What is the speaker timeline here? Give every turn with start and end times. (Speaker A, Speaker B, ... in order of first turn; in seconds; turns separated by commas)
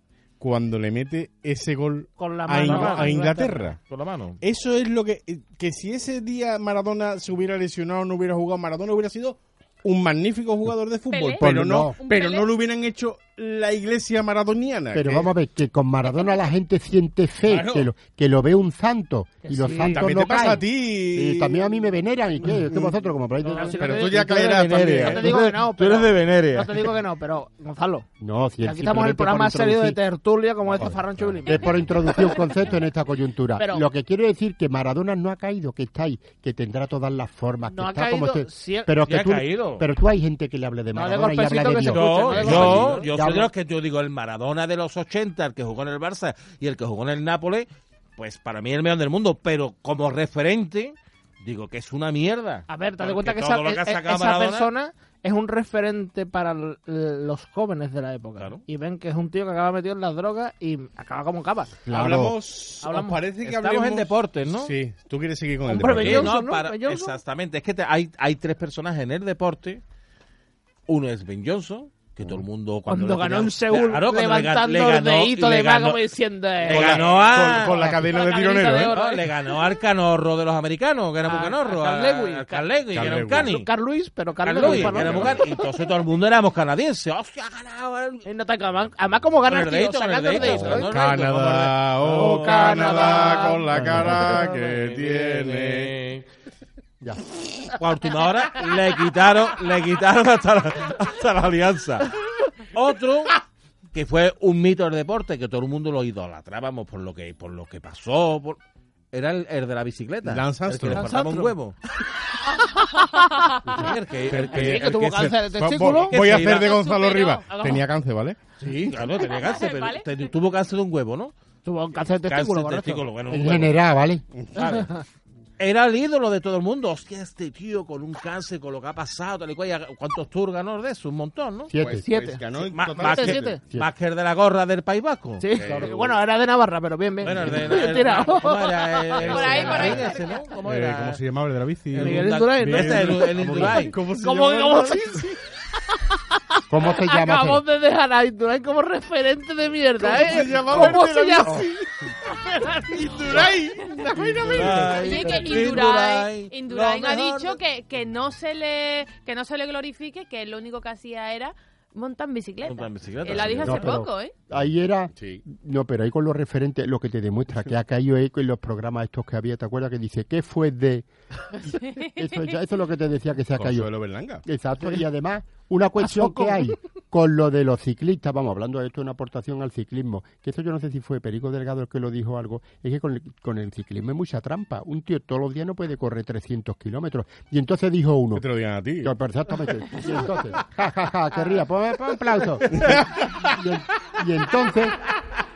Speaker A: 0.4-3.8, Speaker B: 2.2-3.7, Speaker C: 2.6-3.3, Speaker C: 3.8-4.4, Speaker A: 4.4-15.3, Speaker D: 11.1-12.5, Speaker E: 11.4-11.9, Speaker E: 14.9-23.8, Speaker A: 17.4-17.9, Speaker B: 19.4-20.0, Speaker A: 19.8-21.7, Speaker A: 22.4-22.9, Speaker B: 23.5-28.1, Speaker A: 23.7-25.4, Speaker C: 24.1-26.9, Speaker E: 28.2-30.0, Speaker B: 28.6-32.4, Speaker A: 30.8-31.4, Speaker E: 31.4-43.5, Speaker B: 33.6-33.9, Speaker B: 37.7-38.9, Speaker C: 39.0-39.8, Speaker B: 40.9-43.1, Speaker C: 41.9-54.7, Speaker A: 42.5-42.9, Speaker B: 52.7-61.8, Speaker C: 58.4-58.6, Speaker E: 61.9-62.3, Speaker A: 61.9-66.3, Speaker B: 62.8-63.2, Speaker C: 63.4-64.7, Speaker B: 65.7-67.2, Speaker C: 66.0-69.8, Speaker C: 70.9-76.0, Speaker B: 72.9-79.6, Speaker C: 76.6-77.7, Speaker A: 76.7-79.0, Speaker E: 77.6-78.1, Speaker C: 78.9-83.7, Speaker B: 81.2-82.6, Speaker A: 82.9-83.5, Speaker B: 83.4-85.7, Speaker C: 84.4-88.2, Speaker A: 84.6-85.3, Speaker B: 88.2-90.9, Speaker C: 89.4-96.2, Speaker A: 90.4-95.9, Speaker B: 92.1-93.9, Speaker E: 93.7-94.5, Speaker C: 97.8-102.1, Speaker C: 102.7-103.4, Speaker C: 103.9-108.6, Speaker C: 109.1-111.8, Speaker A: 110.2-111.0, Speaker B: 110.9-111.5, Speaker D: 112.5-113.7, Speaker C: 113.7-116.7, Speaker A: 114.3-118.4, Speaker B: 114.5-116.2, Speaker D: 116.5-117.5, Speaker B: 117.5-117.8, Speaker C: 118.6-121.3, Speaker B: 118.6-118.9, Speaker D: 119.2-120.1, Speaker B: 121.6-123.0, Speaker C: 122.2-123.8, Speaker E: 123.3-124.2, Speaker C: 124.5-124.9, Speaker B: 124.6-125.0, Speaker C: 125.6-131.7, Speaker E: 131.7-132.0, Speaker A: 131.8-133.4, Speaker B: 132.0-132.4, Speaker C: 132.7-135.5, Speaker B: 133.0-133.6, Speaker E: 133.6-133.9, Speaker B: 135.4-139.9, Speaker A: 135.5-136.2, Speaker C: 137.2-141.2, Speaker A: 139.2-140.1, Speaker D: 139.2-140.4, Speaker A: 140.6-145.3, Speaker C: 141.9-143.9, Speaker B: 141.9-145.3, Speaker B: 146.3-151.7, Speaker E: 146.7-147.6, Speaker A: 150.0-151.8, Speaker B: 152.5-153.4, Speaker A: 152.9-155.0, Speaker C: 154.4-157.6, Speaker B: 154.6-155.0, Speaker D: 154.9-164.3, Speaker C: 162.7-164.0, Speaker A: 163.2-163.7, Speaker E: 163.6-171.1, Speaker A: 165.1-165.4, Speaker D: 171.6-172.5, Speaker E: 171.6-173.9, Speaker A: 173.5-174.4, Speaker E: 174.4-188.4, Speaker B: 176.0-176.8, Speaker A: 188.3-189.1, Speaker E: 189.0-195.0, Speaker A: 192.7-193.3